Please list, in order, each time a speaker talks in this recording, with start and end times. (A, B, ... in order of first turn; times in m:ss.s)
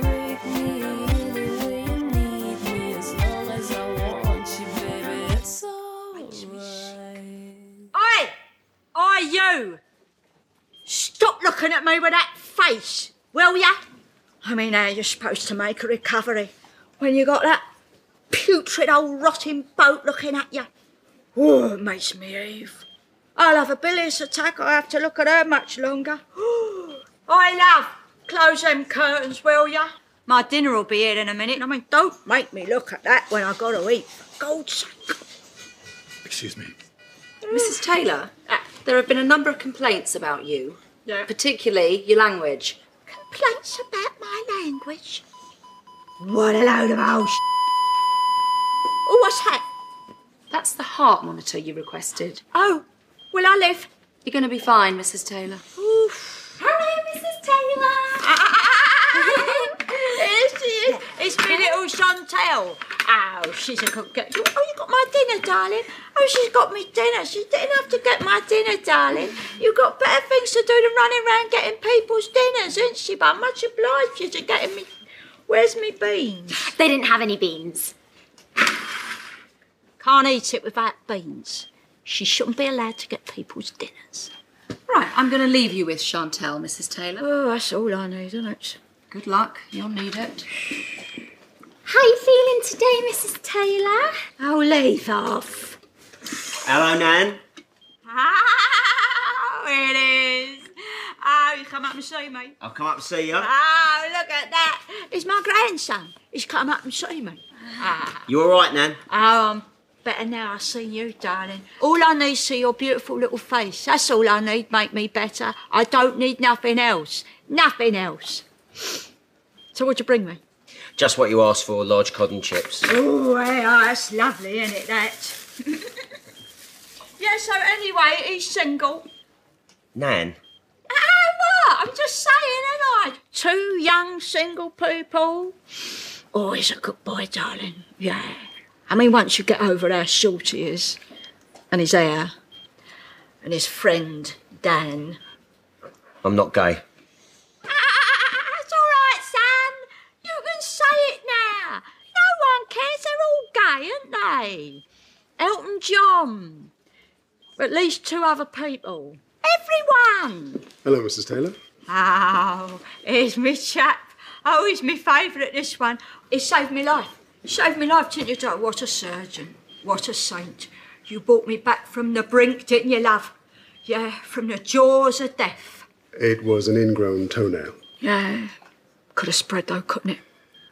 0:07.9-0:08.3 A
0:08.9-0:09.8 A
0:10.8-0:13.8 A
0:14.4-0:17.6 A
0:18.3-0:20.7 A
0:21.3-0:35.2 A
0:37.5-0:37.8 A
0:37.5-0:42.8 B
0:43.1-0:45.2 A
0:46.2-0:47.4 A
0:49.0-0:49.6 A
0:50.5-0:52.4 B
0:52.5-0:53.9 A
0:54.2-0:55.6 B
0:55.8-0:56.5 A
0:56.6-0:58.2 C
0:58.2-1:14.9 A
0:59.4-1:00.0 C
1:15.5-1:16.6 A
1:16.7-1:17.9 C
1:20.0-1:24.3 A
1:24.9-1:27.2 B
1:27.2-1:28.8 A
1:29.1-1:30.5 B
1:31.8-1:34.2 C
1:34.4-1:35.8 A
1:36.6-1:37.4 D
1:38.0-1:40.7 A
1:41.2-1:42.6 A
1:42.6-1:43.5 D
1:43.3-1:48.2 A
1:48.3-1:49.0 D
1:49.1-1:58.4 A
1:59.7-2:00.4 A
2:01.0-2:02.8 D
2:02.8-2:05.4 A
2:07.2-2:09.1 A
2:09.9-2:10.4 D
2:10.9-2:15.6 A
2:16.3-2:21.0 A
2:21.7-2:22.3 A
2:23.4-2:25.2 A
2:26.2-2:26.8 D
2:27.7-2:34.8 A
2:35.4-2:36.7 A
2:37.6-2:40.6 A
2:40.8-2:41.6 E
2:41.9-2:53.3 A
2:53.8-2:55.9 A
2:56.2-2:57.8 E
2:58.0-2:58.5 A
2:59.1-3:00.2 A